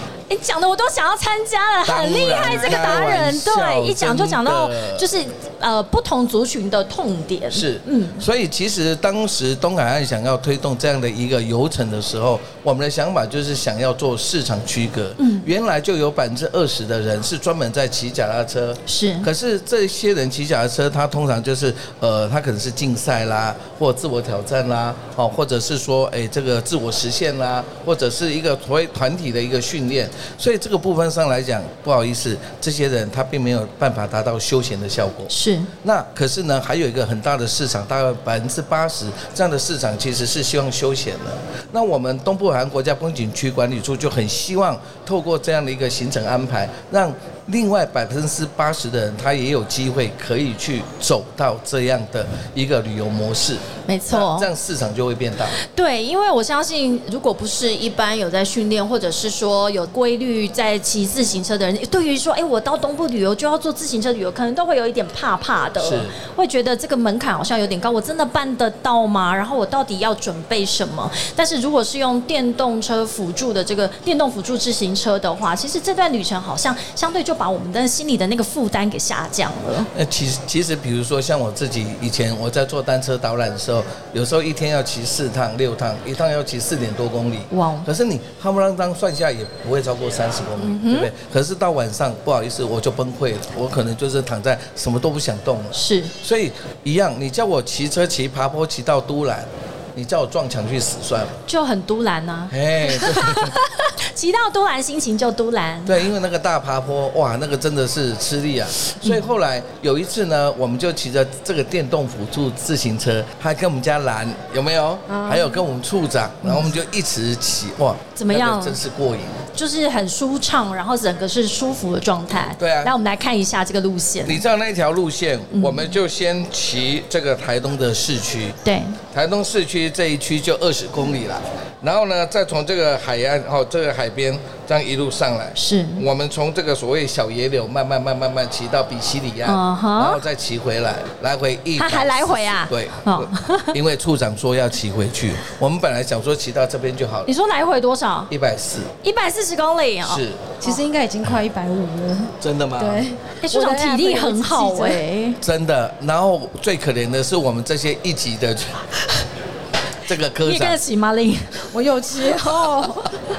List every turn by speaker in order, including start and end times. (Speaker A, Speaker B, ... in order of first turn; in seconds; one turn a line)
Speaker A: 0.3-8.2
Speaker B: 1.9-5.1
Speaker B: 7.5-35.3
Speaker A: 15.2-15.5
Speaker A: 18.9-19.3
Speaker A: 35.3-35.7
Speaker B: 35.8-55.6
Speaker A: 53.9-54.5
Speaker A: 55.6-79.9
Speaker B: 65.8-66.1
Speaker B: 79.9-101.3
Speaker A: 87.5-87.9
Speaker A: 90.6-91.1
Speaker A: 95.7-96.1
Speaker A: 101.5-106.0
Speaker B: 102.5-103.6
Speaker B: 105.8-119.4
Speaker C: 115.1-115.6
Speaker A: 118.2-118.8
Speaker A: 119.5-124.4
Speaker B: 122.6-122.9
Speaker B: 124.2-128.6
Speaker A: 125.5-125.9
Speaker A: 128.6-129.0
Speaker B: 129.1-147.3
Speaker A: 135.6-136.1
Speaker A: 139.4-140.2
Speaker A: 141.8-143.8
Speaker A: 147.2-148.3
Speaker B: 148.3-148.9
Speaker A: 149.0-150.7
Speaker B: 150.0-150.6
Speaker C: 150.6-155.0
Speaker B: 152.4-153.1
Speaker A: 153.4-155.4
Speaker B: 155.4-158.9
Speaker B: 160.0-160.8
Speaker A: 160.4-161.7
Speaker C: 161.7-163.1
Speaker A: 162.3-163.1